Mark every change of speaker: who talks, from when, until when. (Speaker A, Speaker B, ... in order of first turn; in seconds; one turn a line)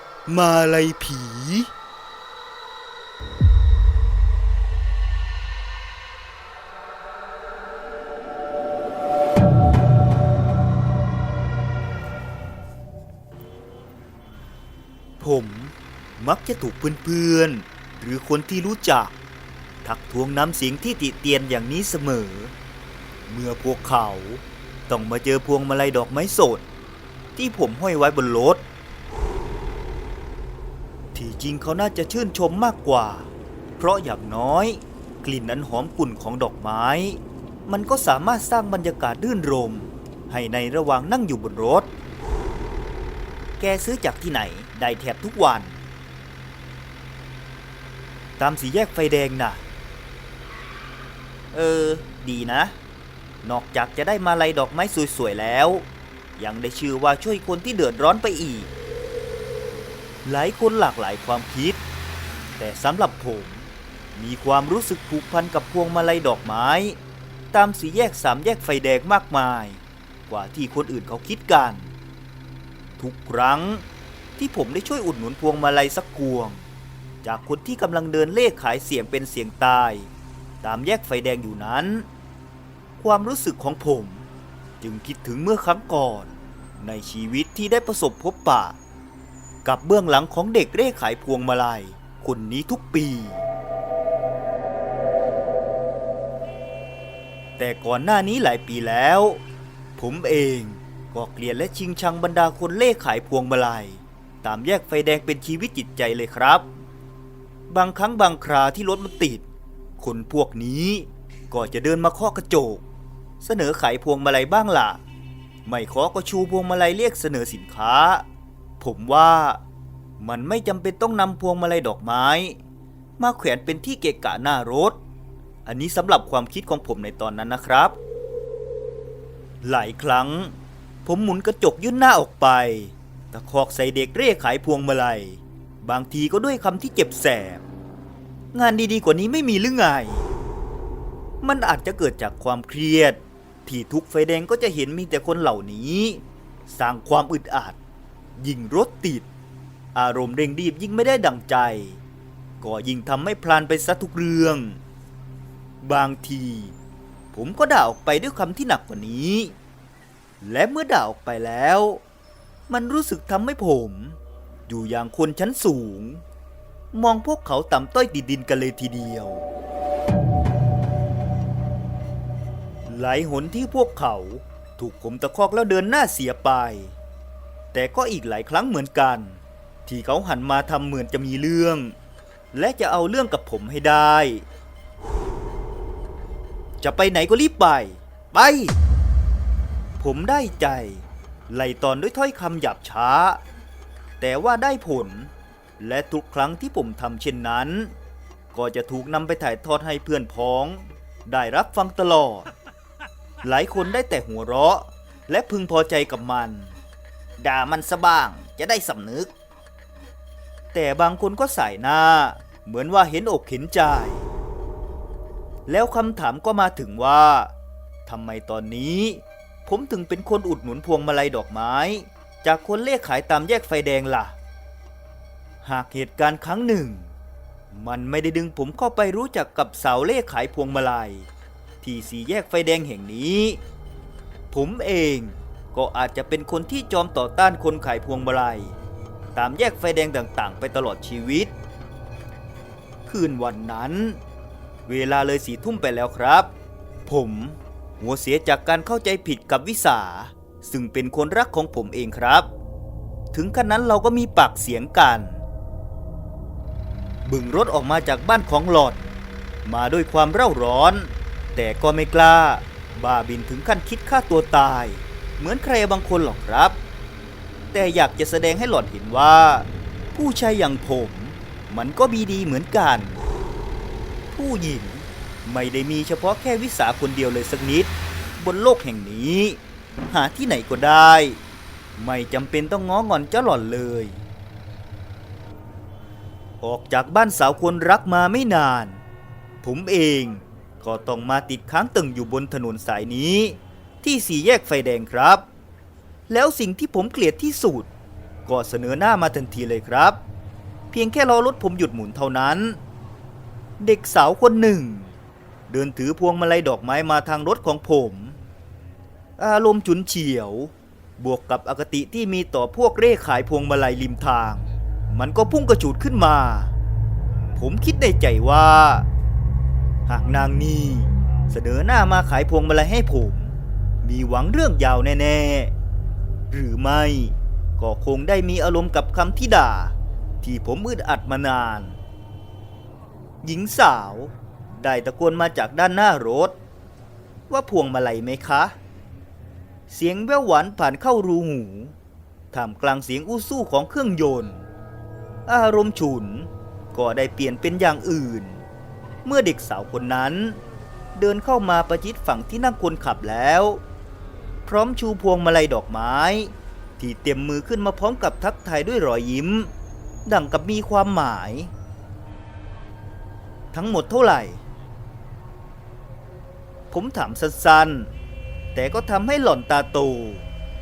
Speaker A: 0.3-1.7
Speaker A: 15.2-19.1
Speaker A: 19.8-22.5
Speaker A: 23.3-26.6
Speaker A: 27.3-28.6
Speaker A: 31.1-41.9
Speaker A: 43.6-45.8
Speaker A: 48.4-49.6
Speaker A: 51.5-52.8
Speaker A: 53.4-58.7
Speaker A: 60.2-61.8
Speaker A: 62.6-63.6
Speaker A: 64.2-67.0
Speaker A: 67.5-71.9
Speaker A: 73.0-73.8
Speaker A: 74.4-76.6
Speaker A: 77.2-80.1
Speaker A: 80.6-82.1
Speaker A: 83.0-84.2
Speaker A: 84.8-88.8
Speaker A: 89.6-93.4
Speaker A: 97.6-99.4
Speaker A: 100.0-106.7
Speaker A: 107.7-109.5
Speaker A: 110.0-112.8
Speaker A: 113.4-115.0
Speaker A: 115.7-118.2
Speaker A: 118.8-119.6
Speaker A: 120.2-122.6
Speaker A: 123.2-125.0
Speaker A: 125.6-128.0
Speaker A: 129.6-137.6
Speaker A: 138.5-140.3
Speaker A: 141.4-147.8
Speaker A: 148.4-149.3
Speaker A: 149.9-152.0
Speaker A: 152.6-154.8
Speaker A: 155.8-156.7
Speaker A: 157.3-159.5
Speaker A: 160.4-162.0
Speaker A: 162.7-166.2
Speaker A: 166.9-169.5
Speaker A: 172.9-176.9
Speaker A: 177.7-181.9
Speaker A: 182.5-184.4
Speaker A: 186.8-188.8
Speaker A: 190.0-193.4
Speaker A: 194.2-197.9
Speaker A: 198.5-202.5
Speaker A: 203.4-206.7
Speaker A: 207.4-209.3
Speaker A: 210.7-214.3
Speaker A: 215.7-217.5
Speaker A: 218.1-224.3
Speaker A: 225.6-227.1
Speaker A: 227.7-231.3
Speaker A: 231.8-233.6
Speaker A: 234.5-238.8
Speaker A: 239.3-241.5
Speaker A: 243.1-244.2
Speaker A: 244.9-246.5
Speaker A: 247.1-252.5
Speaker A: 253.3-255.4
Speaker A: 257.2-259.1
Speaker A: 259.6-266.8
Speaker A: 267.7-273.2
Speaker A: 274.3-279.6
Speaker A: 280.1-281.4
Speaker A: 282.0-284.2
Speaker A: 286.6-289.0
Speaker A: 289.6-295.4
Speaker A: 296.3-297.9
Speaker A: 298.4-300.2
Speaker A: 300.9-302.8
Speaker A: 303.8-305.1
Speaker A: 305.7-308.4
Speaker A: 309.4-316.7
Speaker A: 317.6-319.1
Speaker A: 320.1-325.7
Speaker A: 326.5-332.0
Speaker A: 333.4-336.6
Speaker A: 337.5-338.8
Speaker A: 339.9-341.9
Speaker A: 342.5-344.6
Speaker A: 345.4-348.6
Speaker A: 349.2-350.6
Speaker A: 351.1-353.8
Speaker A: 354.6-359.7
Speaker A: 360.2-361.7
Speaker A: 363.7-364.6
Speaker A: 366.9-368.1
Speaker A: 368.7-370.4